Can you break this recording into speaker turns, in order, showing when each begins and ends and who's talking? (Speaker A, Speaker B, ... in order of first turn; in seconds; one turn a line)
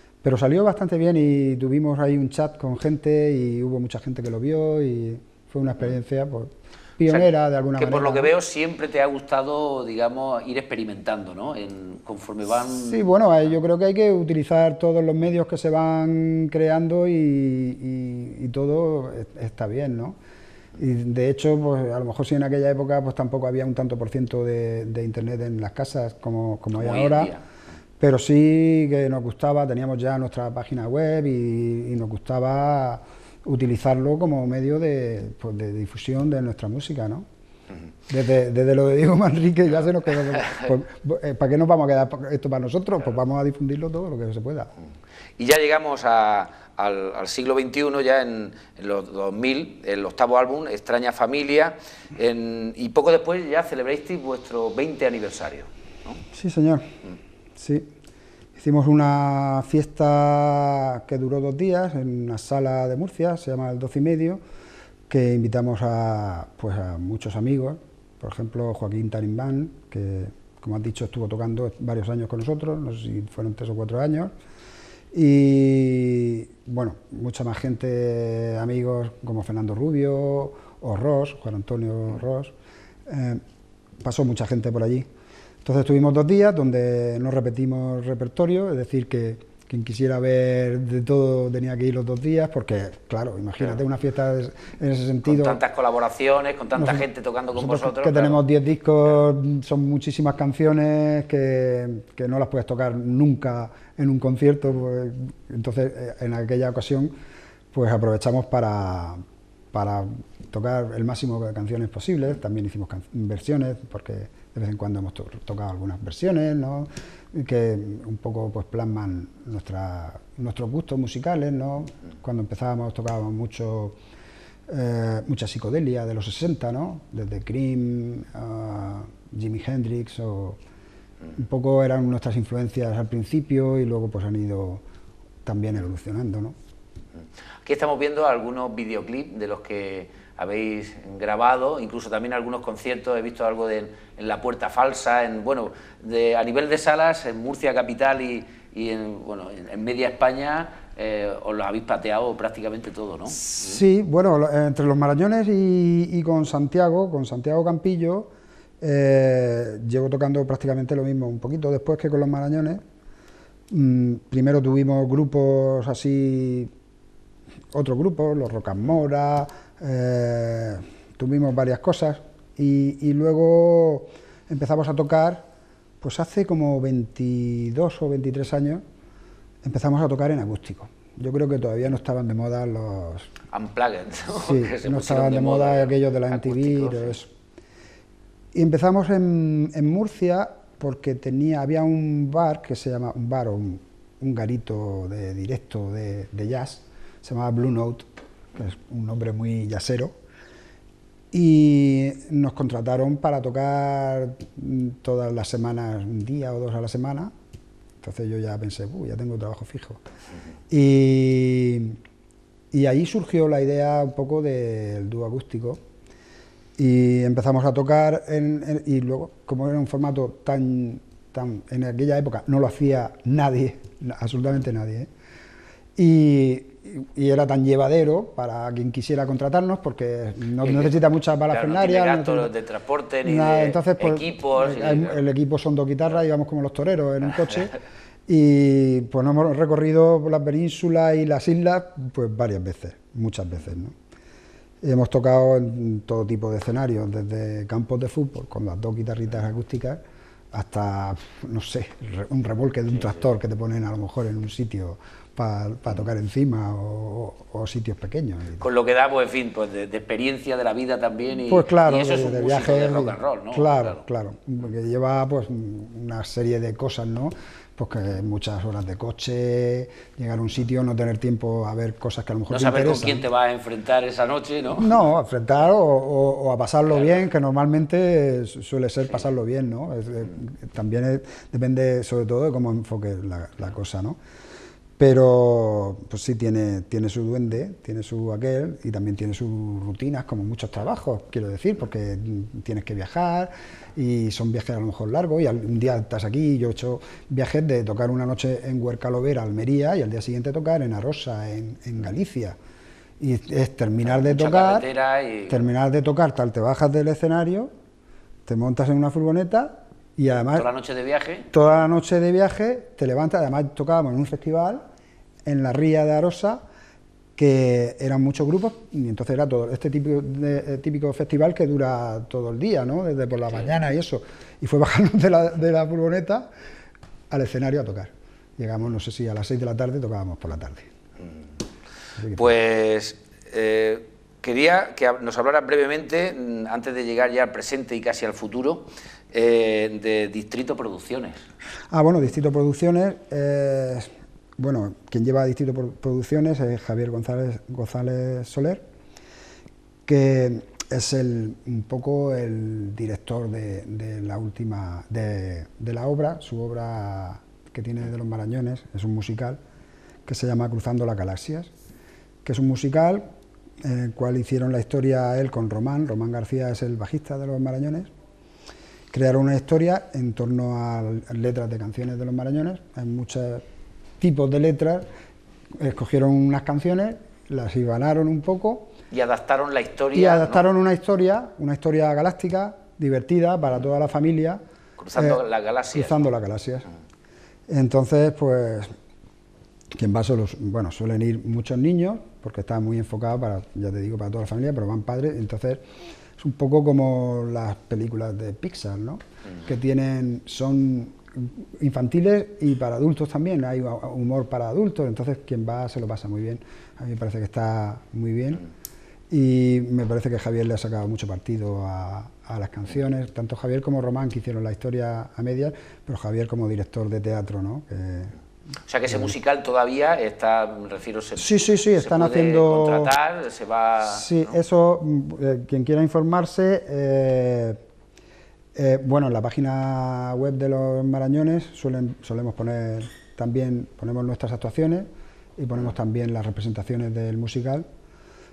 Speaker A: 0.2-8.3
Speaker B: 7.0-13.1
Speaker A: 12.7-20.2
Speaker A: 20.8-27.3
Speaker B: 26.7-27.4
Speaker A: 28.0-37.2
Speaker A: 38.1-44.7
Speaker B: 45.4-56.2
Speaker A: 56.3-56.9
Speaker A: 57.5-57.9
Speaker A: 58.5-64.4
Speaker A: 65.1-74.3
Speaker A: 75.1-82.5
Speaker A: 83.0-83.4
Speaker A: 84.0-85.1
Speaker A: 85.6-95.6
Speaker B: 95.2-98.4
Speaker A: 96.8-107.1
Speaker A: 107.7-109.2
Speaker A: 109.7-124.0
Speaker A: 124.7-130.6
Speaker A: 131.3-134.8
Speaker A: 135.4-136.6
Speaker B: 137.6-153.8
Speaker A: 153.3-158.3
Speaker A: 158.8-162.8
Speaker A: 163.7-166.7
Speaker A: 167.7-175.5
Speaker A: 176.0-178.8
Speaker A: 179.6-183.3
Speaker B: 183.5-187.2
Speaker A: 184.3-187.3
Speaker A: 188.5-200.1
Speaker A: 201.3-207.3
Speaker A: 208.0-210.0
Speaker A: 210.7-212.0
Speaker A: 212.7-215.8
Speaker A: 216.8-225.1
Speaker A: 226.0-232.5
Speaker B: 230.6-230.9
Speaker B: 231.5-235.2
Speaker A: 233.2-237.7
Speaker A: 238.3-243.9
Speaker A: 244.8-258.6
Speaker B: 258.6-264.0
Speaker A: 261.5-273.2
Speaker B: 272.5-275.0
Speaker A: 274.7-284.2
Speaker A: 285.0-302.6
Speaker A: 303.2-304.9
Speaker B: 304.0-305.7
Speaker A: 305.5-307.7
Speaker A: 308.4-310.6
Speaker B: 310.5-311.5
Speaker A: 311.5-314.8
Speaker A: 315.4-316.6
Speaker A: 317.4-326.5
Speaker A: 327.3-330.9
Speaker A: 332.2-332.5
Speaker B: 332.3-341.5
Speaker A: 341.9-348.8
Speaker A: 350.1-359.6
Speaker A: 360.2-361.7
Speaker A: 362.4-363.2
Speaker A: 363.8-368.1
Speaker A: 369.1-373.6
Speaker A: 374.2-375.1
Speaker A: 375.8-378.9
Speaker B: 379.1-380.6
Speaker A: 380.1-384.6
Speaker B: 385.0-386.2
Speaker A: 385.1-385.4
Speaker A: 385.9-386.9
Speaker A: 387.7-388.9
Speaker A: 389.9-395.8
Speaker A: 396.4-408.6
Speaker A: 409.3-418.3
Speaker B: 418.9-424.6
Speaker A: 421.4-423.1
Speaker A: 424.0-427.8
Speaker A: 428.7-437.8